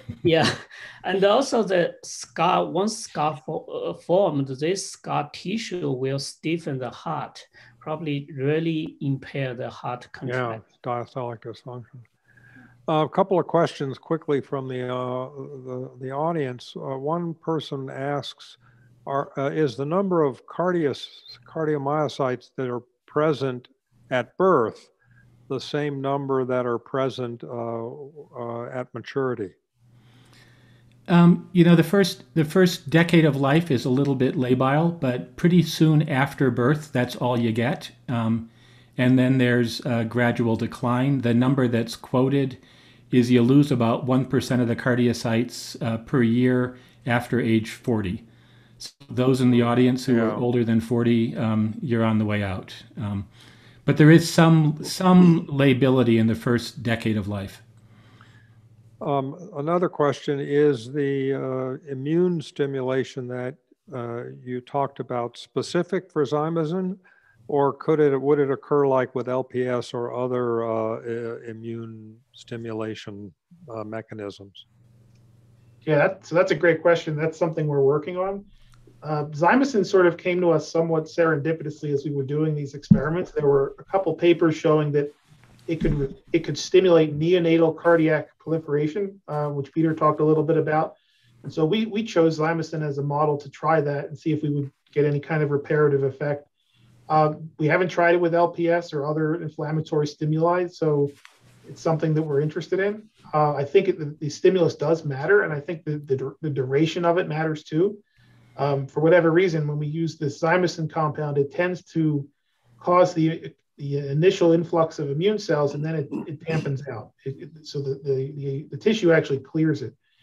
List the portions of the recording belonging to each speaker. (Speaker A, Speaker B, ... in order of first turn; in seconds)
Speaker A: 0.2-10.6
Speaker B: 10.3-12.1, 12.9-24.9, 25.5-29.6, 50.1-50.5, 59.0-74.7
Speaker C: 31.1-42.6, 43.1-48.2, 48.8-53.3, 53.9-57.6
Speaker D: 75.8-78.5, 79.0-85.1, 85.7-96.5, 97.1-108.0, 108.6-112.3, 112.8-120.0